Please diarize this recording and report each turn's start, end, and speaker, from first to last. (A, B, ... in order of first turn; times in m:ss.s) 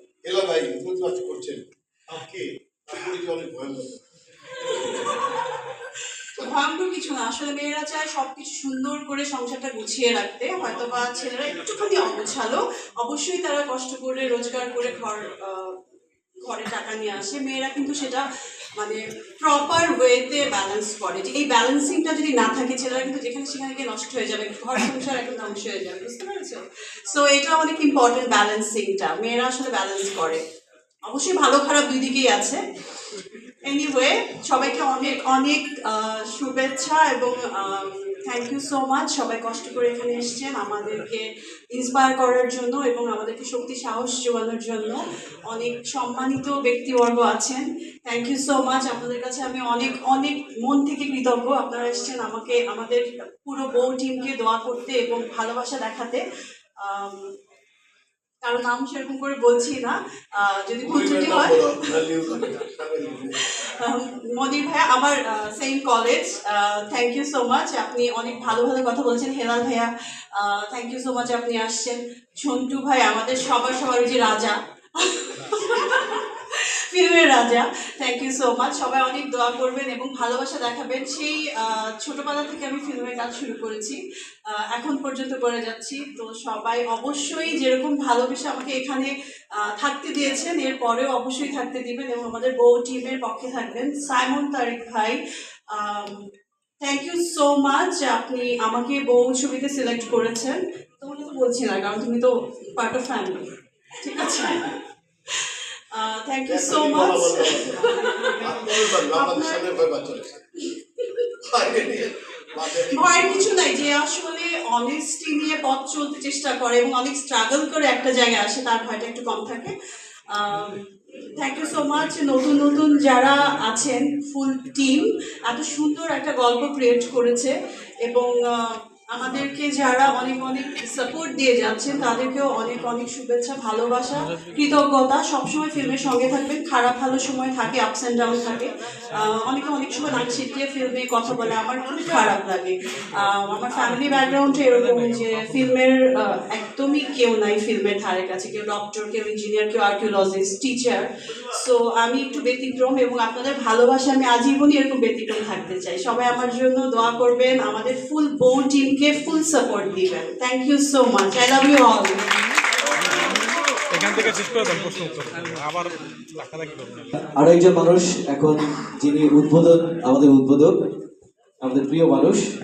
0:00.2-0:04.0 A
0:04.6-0:05.4 B
0:06.4-0:15.8 B
0:16.4-0:18.2 B
0:18.8-0:30.4 B
0:31.1-0:32.6 B
0:33.6-0:56.2 B
0:56.8-0:57.3 B
0:58.4-1:01.9 B
1:00.8-1:03.4 A
1:03.4-1:24.0 B
1:24.5-1:35.2 B
1:35.7-1:36.2 B
1:36.8-1:44.8 B
1:45.3-1:48.4 B
1:46.5-1:50.4 A
1:49.1-1:49.6 B
1:51.5-1:53.6 A
1:52.9-1:59.8 B
2:00.3-2:00.9 B
2:01.4-2:42.2 B
2:43.9-2:47.1 C
2:47.4-2:50.8 D
2:51.6-2:52.4 D